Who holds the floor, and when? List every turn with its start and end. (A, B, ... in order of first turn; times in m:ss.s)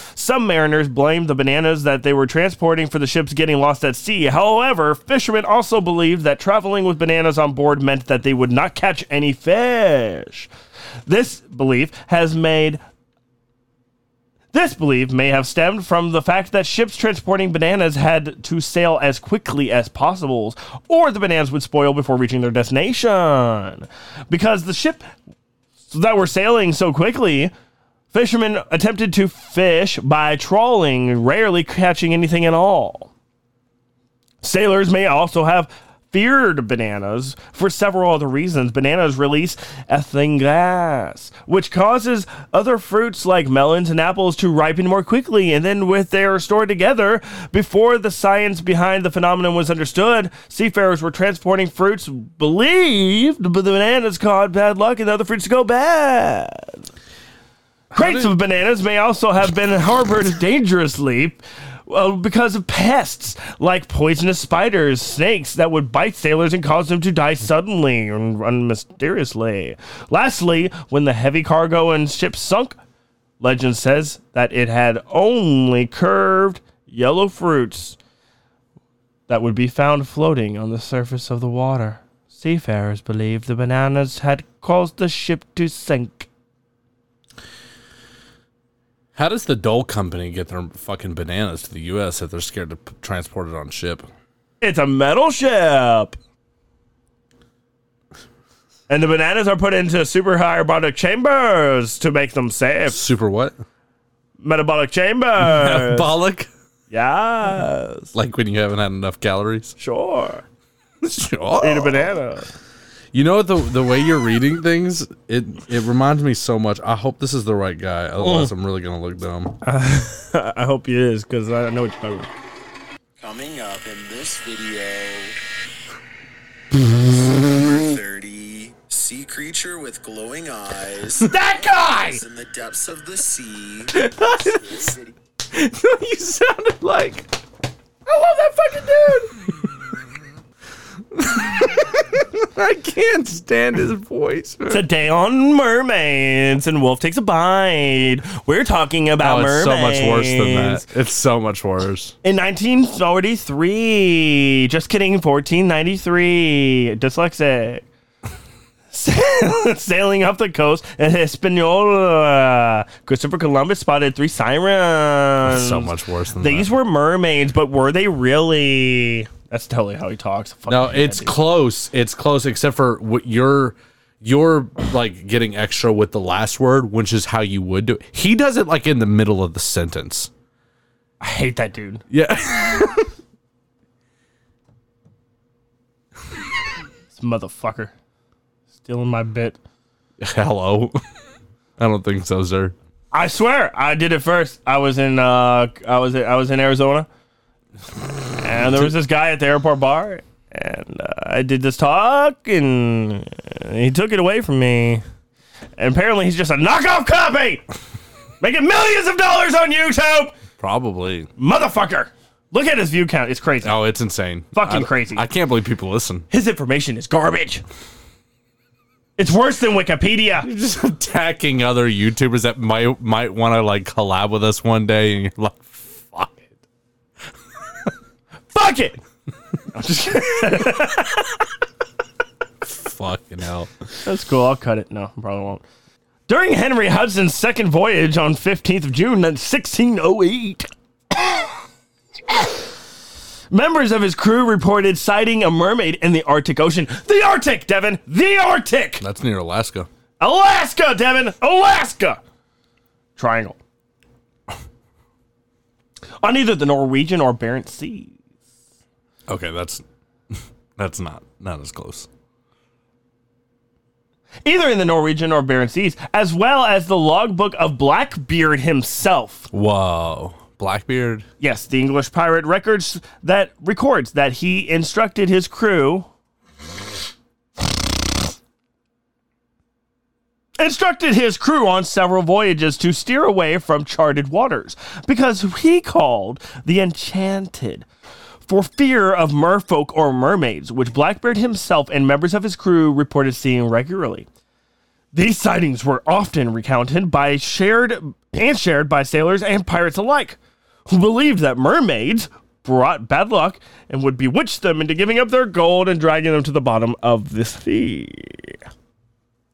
0:00.1-0:10.5 A
0:11.0-0:12.8 A
0:14.5-0:25.0 A
0:25.9-0:27.5 A
0:28.1-0:33.1 A
0:34.4-0:56.8 A
0:57.9-0:58.3 B
0:57.9-1:12.8 A
1:13.4-1:18.0 A
1:19.3-1:26.3 A
1:29.1-1:34.1 B
1:34.6-1:36.2 A
1:38.9-1:43.0 A
1:42.9-1:43.6 B
1:44.4-1:46.1 A
1:45.4-1:46.5 B
1:46.9-1:48.1 A
1:48.1-1:49.8 B
1:49.8-1:50.4 A
1:51.0-1:52.1 B
1:51.6-1:52.5 A
1:53.1-1:59.6 B
1:58.2-1:58.5 A
1:59.6-2:02.3 A
2:03.2-2:05.4 C
2:07.4-2:15.1 C
2:11.2-2:12.2 A
2:14.0-2:14.6 B
2:15.5-2:17.3 B
2:18.0-2:19.3 A
2:21.1-2:24.8 B
2:24.7-2:30.8 A
2:29.2-2:32.1 B
2:32.2-2:37.8 A
2:38.9-2:51.4 A
2:45.4-2:46.7 B
2:50.7-3:00.3 B
3:01.2-3:02.0 A
3:02.1-3:03.1 B
3:07.1-3:07.9 A
3:08.8-3:09.6 A
3:10.2-3:11.0 B
3:11.8-3:12.7 B
3:13.1-3:17.1 A
3:18.4-3:25.0 A
3:25.8-3:27.6 A
3:28.4-3:30.3 A
3:30.6-3:31.3 B
3:31.4-3:33.8 A
3:33.6-3:36.2 B
3:34.5-3:35.2 A
3:36.3-3:37.6 A
3:39.2-3:40.5 A
3:40.4-3:46.5 B
3:48.5-3:49.0 A
3:49.7-3:51.3 A
3:52.6-3:53.8 B
3:54.0-3:55.6 A
3:56.3-4:01.5 A
4:03.5-4:09.0 A
4:09.0-4:09.9 B
4:10.2-4:12.2 A
4:13.2-4:13.6 A
4:16.2-4:18.1 A
4:19.3-4:22.1 B
4:24.4-4:29.5 A
4:29.5-4:31.2 B
4:31.4-4:36.1 A
4:40.6-4:47.8 A
4:48.5-4:54.3 A
4:55.1-5:08.6 A